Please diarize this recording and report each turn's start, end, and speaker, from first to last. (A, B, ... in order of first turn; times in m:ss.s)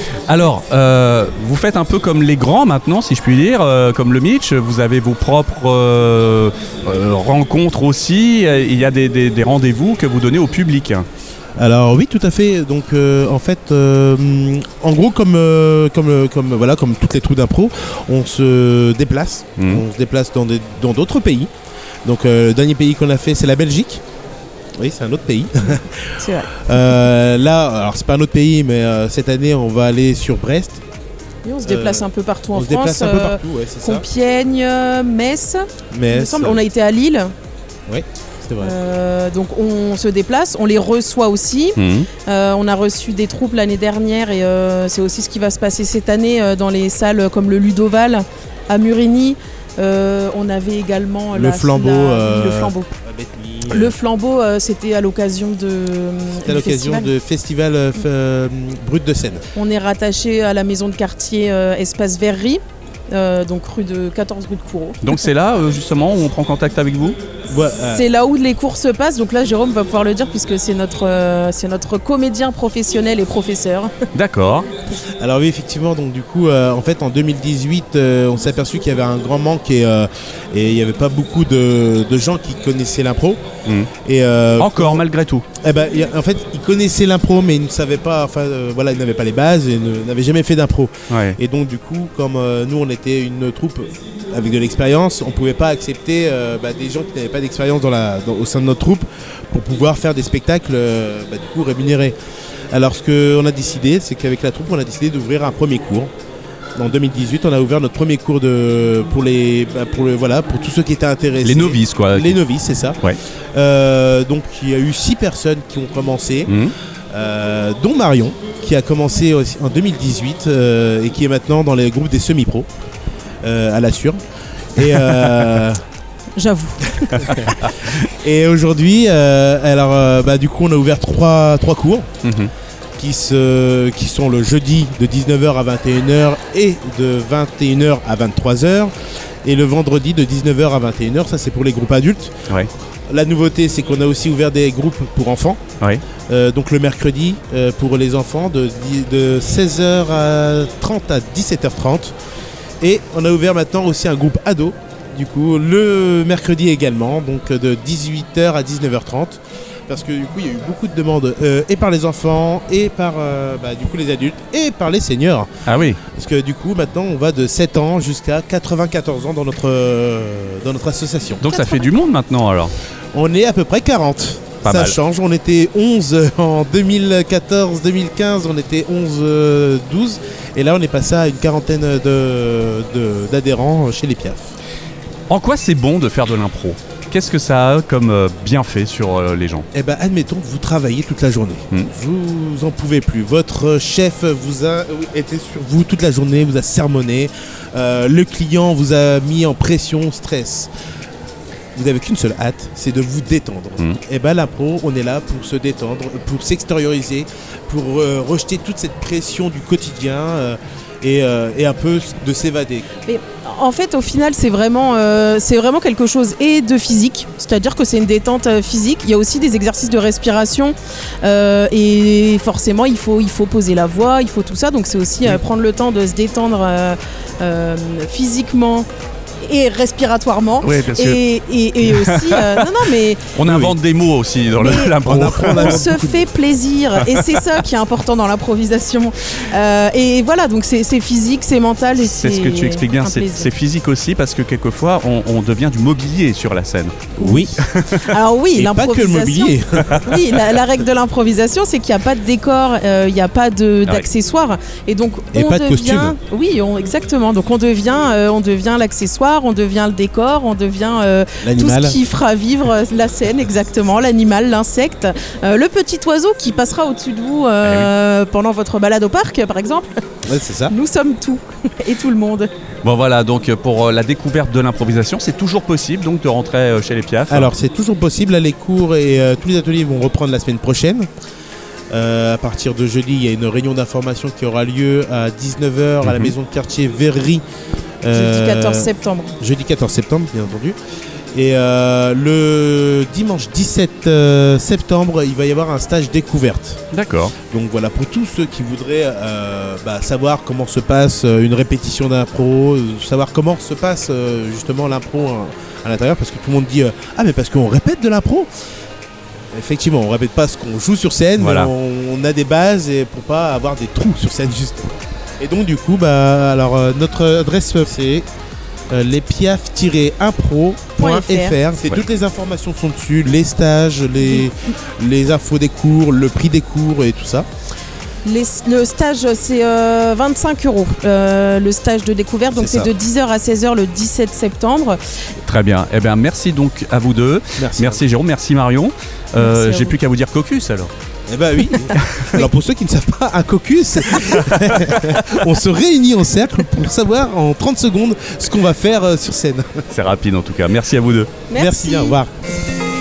0:00.3-0:11.1 A
0:11.6-0:21.5 B
0:19.6-0:19.8 A
0:22.0-0:24.0 B
0:24.8-0:30.8 B
0:26.2-0:26.9 C
0:31.4-0:37.3 C
0:31.6-0:34.1 B
0:35.9-0:36.6 B
0:37.9-0:38.8 B
0:38.6-0:52.9 C
0:41.8-0:42.1 A
0:51.3-0:54.0 B
0:53.7-0:57.1 C
0:56.3-0:59.4 B
0:59.6-1:05.2 C
1:05.0-1:07.2 A
1:07.5-1:08.0 B
1:07.9-1:14.0 C
1:14.1-1:14.7 A
1:15.2-1:23.4 B
1:23.7-1:23.9 A
1:24.0-1:25.0 B
1:24.6-1:25.4 A
1:25.6-1:42.2 B
1:31.1-1:31.4 A
1:42.7-1:46.1 B
1:46.8-1:53.0 B
1:51.4-1:52.4 A
1:53.5-1:56.6 B
1:56.5-1:56.7 A
1:57.1-2:02.7 B
2:03.4-2:04.2 B
2:04.8-2:05.8 B
2:06.4-2:07.4 C
2:07.2-2:12.1 B
2:12.2-2:12.5 A
2:13.0-2:18.9 B
2:19.4-2:22.4 B
2:23.1-2:25.6 B
2:26.3-2:32.2 B
2:32.8-2:45.5 B
2:45.7-2:46.0 A
2:46.1-2:51.4 B
2:51.4-2:52.7 A
2:51.5-2:51.9 C
2:53.1-3:04.4 B
2:54.6-2:55.0 A
3:05.3-3:09.6 A
3:09.7-3:20.7 B
3:21.8-3:32.9 B
3:33.0-3:48.9 C
3:49.4-3:53.3 C
3:50.6-3:51.2 A
3:51.9-3:52.7 A
3:53.3-3:55.8 A
3:53.4-3:53.8 B
3:54.6-3:56.3 B
3:54.6-3:55.0 C
3:55.5-4:03.5 C
3:57.0-3:57.6 A
4:02.0-4:07.0 A
4:07.2-4:07.6 B
4:07.2-4:30.0 C
4:07.6-4:08.1 A
4:08.5-4:10.5 B
4:15.3-4:16.2 B
4:21.4-4:22.0 B
4:27.6-4:27.9 A
4:30.3-4:30.8 B
4:30.7-4:32.5 C
4:32.8-4:37.5 A
4:37.3-4:41.1 B
4:41.9-4:47.4 B
4:46.0-4:46.3 A
4:48.0-4:50.8 B
4:48.1-4:49.4 C
4:51.3-4:56.8 B
4:56.9-4:57.4 A
4:57.5-5:08.5 B
5:09.5-5:18.3 B
5:11.4-5:11.7 A
5:18.9-5:27.5 B
5:21.0-5:21.6 C
5:28.2-5:35.0 C
5:32.5-5:32.9 B
5:35.4-5:40.9 A
5:37.6-5:38.0 B
5:39.4-5:40.0 C
5:41.3-5:49.8 B
5:42.0-5:42.3 A
5:44.4-5:45.0 A
5:49.9-5:51.3 A
5:51.5-5:52.2 C
5:51.5-5:52.3 B